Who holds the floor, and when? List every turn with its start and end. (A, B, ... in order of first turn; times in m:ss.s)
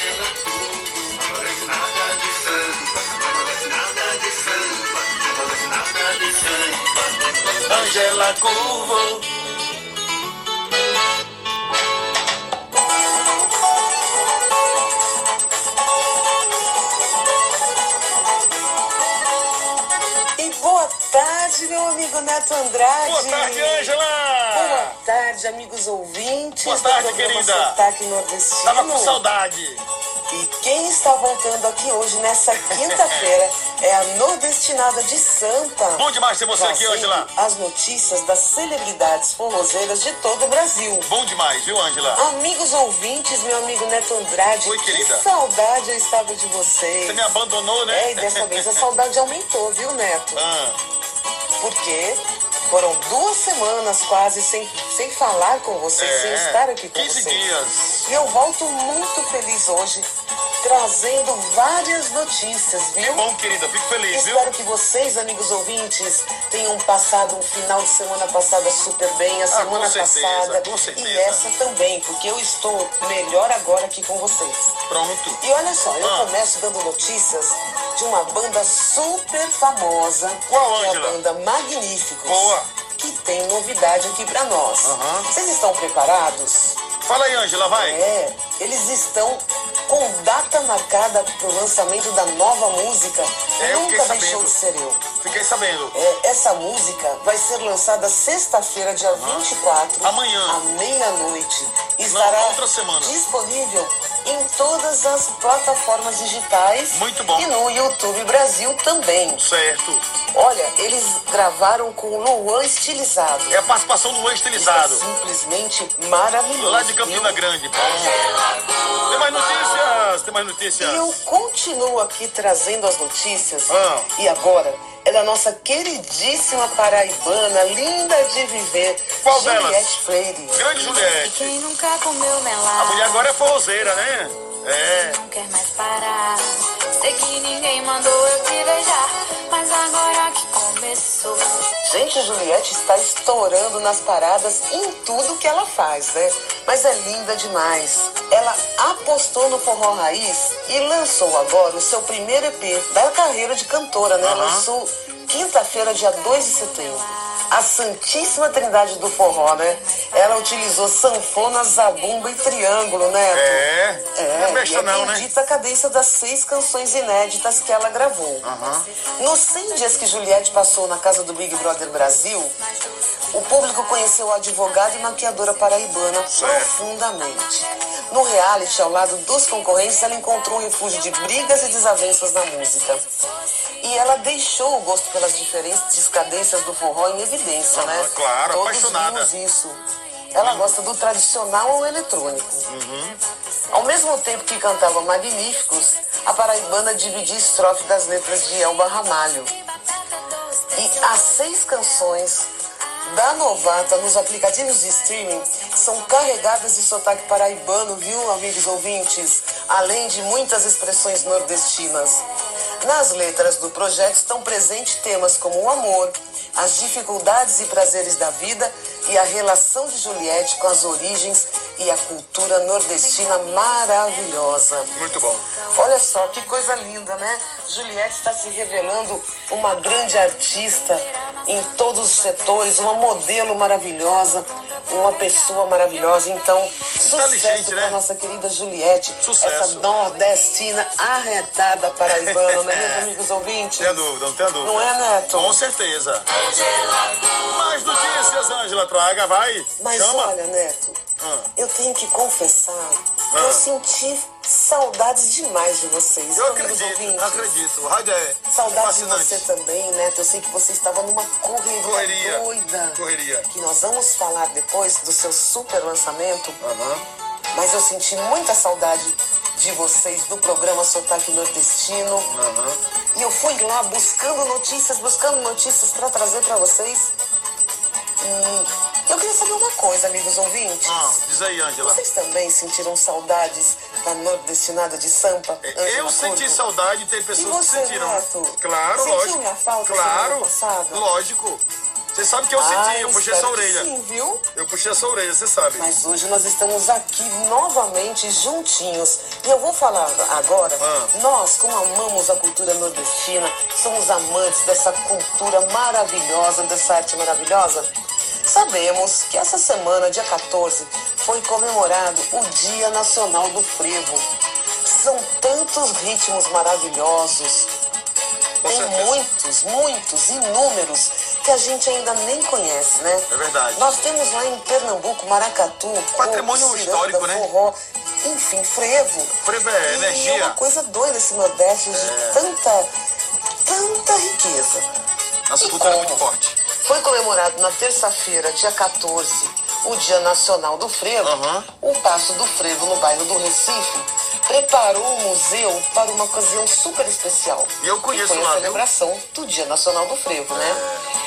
0:01.0-0:06.7 A
0:07.7-0:09.3 A
0:20.4-0:24.0 B
0:23.0-0:25.0 A
0:24.5-0:29.2 B
0:26.6-0:27.8 A
0:28.6-0:29.9 A
0:30.3-0:41.1 B
0:32.6-0:33.3 A
0:36.0-0:37.3 A
0:41.1-0:42.2 A
0:42.2-0:47.3 B
0:44.6-0:45.3 A
0:47.0-0:48.8 A
0:47.9-0:50.4 B
0:50.4-0:50.8 A
0:51.6-0:57.5 B
0:56.0-0:58.1 A
0:58.0-1:00.1 B
1:00.6-1:03.3 B
1:03.0-1:04.6 A
1:04.1-1:14.8 B
1:09.5-1:11.4 A
1:14.9-1:15.4 A
1:15.4-1:26.8 B
1:16.0-1:16.3 A
1:20.5-1:21.2 A
1:22.3-1:22.7 A
1:24.8-1:25.3 A
1:27.0-1:28.0 A
1:27.7-1:35.0 B
1:33.6-1:34.6 A
1:35.2-1:36.0 A
1:35.9-1:49.4 B
1:39.1-1:39.4 A
1:40.0-1:40.6 A
1:42.0-1:43.2 A
1:46.9-1:47.5 A
1:49.4-1:50.1 A
1:50.3-1:53.6 B
1:53.5-1:55.0 A
1:54.5-1:57.4 B
1:56.6-1:58.4 A
1:59.0-2:01.1 A
2:00.8-2:10.6 B
2:03.7-2:04.1 A
2:09.2-2:10.0 A
2:10.5-2:11.6 A
2:11.0-2:13.3 C
2:12.8-2:15.2 A
2:15.0-2:21.5 C
2:21.8-2:48.5 B
2:34.2-2:34.7 A
2:43.3-2:45.3 A
2:48.4-2:48.9 A
2:49.2-2:52.6 B
2:53.3-3:03.0 B
2:56.3-2:56.7 A
3:03.8-3:09.8 B
3:07.7-3:09.3 A
3:10.3-3:12.7 B
3:10.4-3:10.8 A
3:12.7-3:13.2 A
3:13.7-3:19.5 B
3:20.7-3:22.5 B
3:23.0-3:32.2 B
3:32.8-3:45.0 B
3:45.0-3:45.4 A
3:45.8-4:04.1 B
3:57.0-3:58.0 A
3:59.2-3:59.9 A
4:02.1-4:03.0 A
4:03.8-4:06.4 A
4:04.6-4:05.6 B
4:07.3-4:10.3 A
4:09.8-4:11.0 B
4:11.2-4:11.5 A
4:11.6-4:17.6 B
4:13.3-4:13.7 A
4:16.4-4:19.5 A
4:18.5-4:26.6 B
4:21.8-4:23.5 A
4:26.6-4:27.0 A
4:27.5-4:32.3 B
4:32.3-4:32.8 A
4:33.1-4:37.1 B
4:38.2-4:41.2 B
4:40.8-4:42.0 A
4:41.8-4:46.6 B
4:45.6-4:53.9 A
4:47.4-4:51.0 B
4:52.6-4:54.4 B
4:54.6-4:55.9 A
4:55.7-5:07.9 B
5:00.8-5:01.1 A
5:08.4-5:14.3 B
5:14.8-5:17.7 B
5:18.6-5:19.2 A
5:18.6-5:32.9 B
5:23.3-5:23.9 A
5:26.2-5:27.5 A
5:29.4-5:30.6 A
5:31.9-5:32.4 A
5:33.6-5:34.9 B
5:35.5-5:36.6 A
5:35.6-5:50.8 B
5:41.2-5:41.7 A
5:47.8-5:48.8 A
5:50.5-5:51.1 A